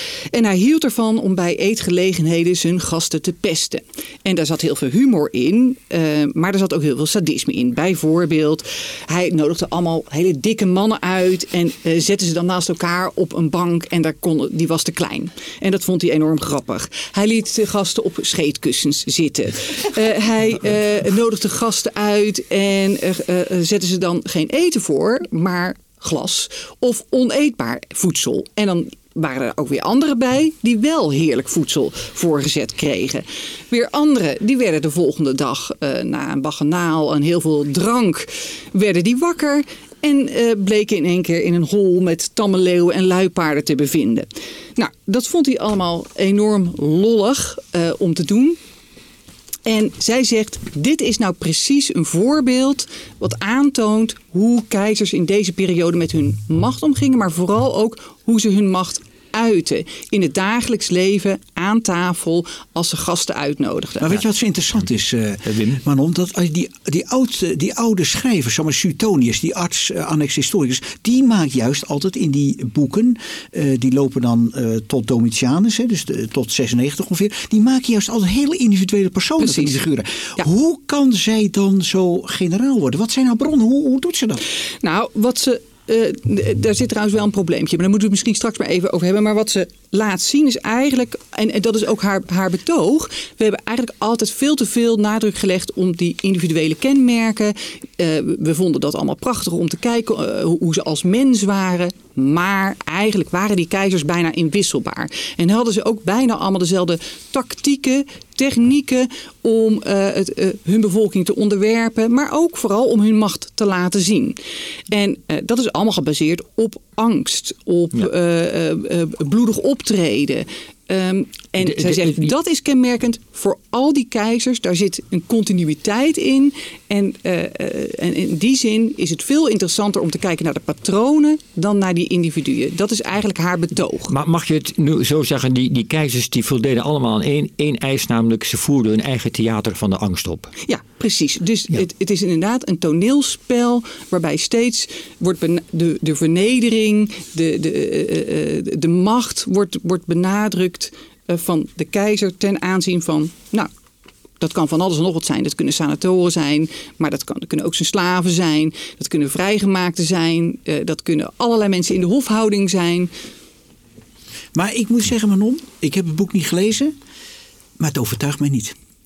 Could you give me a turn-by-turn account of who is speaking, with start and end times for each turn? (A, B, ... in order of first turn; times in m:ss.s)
0:00.3-0:48.6 A
0:49.7-1:04.2 A
1:04.0-1:24.4 B
1:05.5-1:05.8 C
1:24.8-1:54.4 A
1:54.9-2:14.1 A
2:01.6-2:02.3 C
2:14.1-2:20.5 C
2:20.7-2:33.7 A
2:34.4-2:43.1 A
2:44.5-2:46.9 B
2:47.8-2:48.8 B